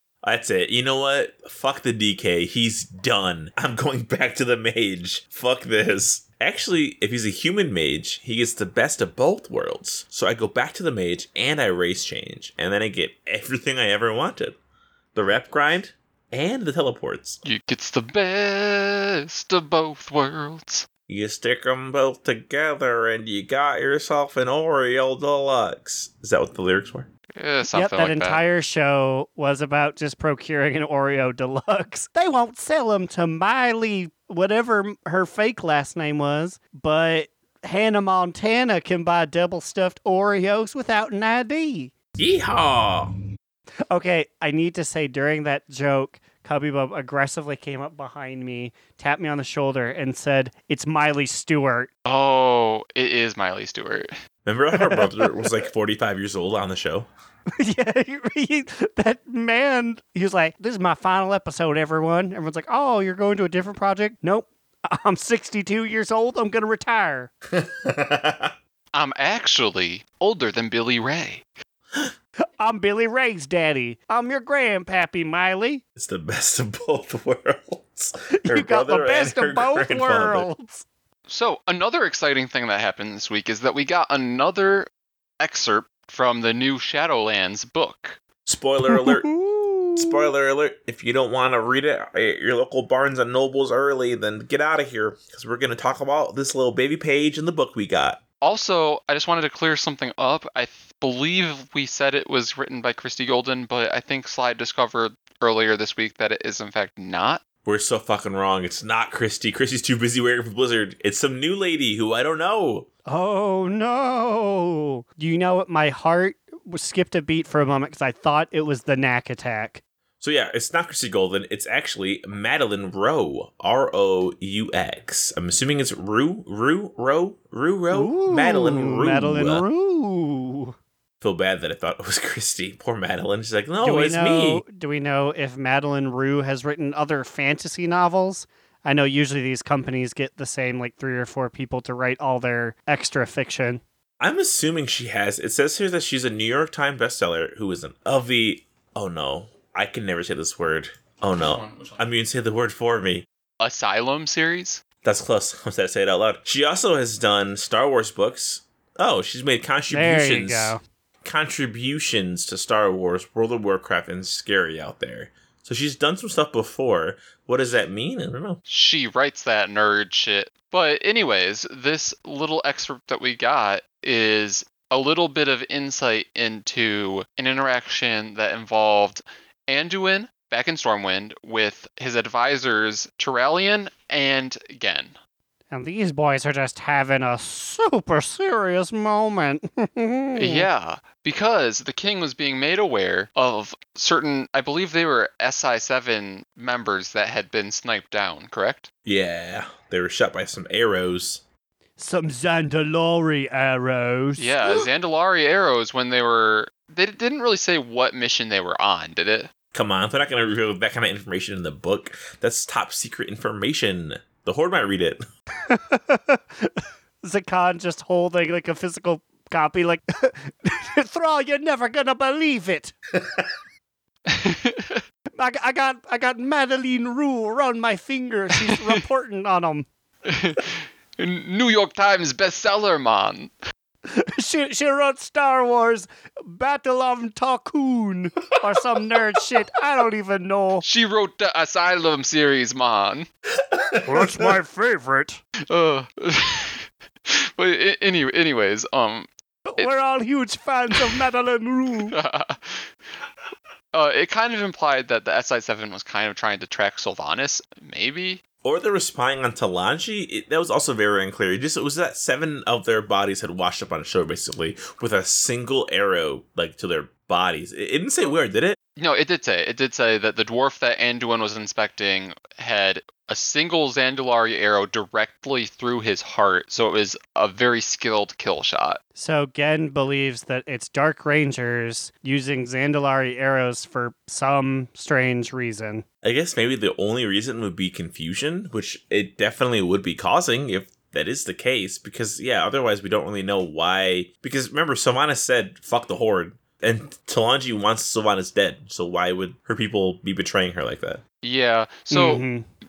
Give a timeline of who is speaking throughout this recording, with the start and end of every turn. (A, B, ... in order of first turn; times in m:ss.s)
0:00.2-0:14.6 A
0:15.1-0:17.4 A
0:17.4-0:20.8 B
0:21.1-0:27.1 A
0:27.4-0:28.4 B
0:27.7-0:41.9 C
0:42.2-0:43.1 A
0:43.9-0:51.9 C
0:52.0-0:54.1 B
0:54.4-0:57.1 A
0:54.7-0:55.5 C
0:57.6-1:07.3 C
1:07.5-1:08.5 A
1:08.9-1:11.5 B
1:12.6-1:15.8 C
1:16.0-1:20.5 A
1:18.4-1:20.8 C
1:21.3-1:24.9 B
1:25.4-1:28.2 B
1:28.4-1:29.3 A
1:28.9-1:30.3 C
1:30.0-1:38.2 A
1:38.4-1:47.4 B
1:47.6-1:52.9 A
1:53.1-1:59.8 C
2:00.2-2:09.6 A
2:07.9-2:10.7 C
2:11.2-2:14.6 A
2:13.8-2:23.8 C
2:24.2-2:33.2 A
2:31.5-2:32.0 B
2:33.6-2:34.8 B
2:35.0-2:48.6 A
2:39.9-2:40.8 C
2:48.7-3:05.1 B
3:05.7-3:10.7 C
3:10.4-3:18.9 B
3:19.0-3:21.4 A
3:22.0-3:24.9 C
3:24.4-3:29.5 B
3:29.7-3:35.2 A
3:35.7-3:42.9 C
3:43.2-3:43.5 A
3:44.3-3:45.0 B
3:45.4-3:49.9 C
3:50.2-3:53.5 B
3:54.1-4:00.8 C
4:00.8-4:03.3 B
4:03.6-4:04.5 A
4:04.0-4:05.4 C
4:05.7-4:09.9 B
4:09.7-4:12.2 C
4:12.1-4:12.9 B
4:13.9-4:18.4 B
4:18.6-4:28.8 A
4:29.0-4:39.0 B
4:39.2-4:46.0 C
4:46.2-5:01.2 A
5:01.4-5:02.4 B
5:02.1-5:02.6 C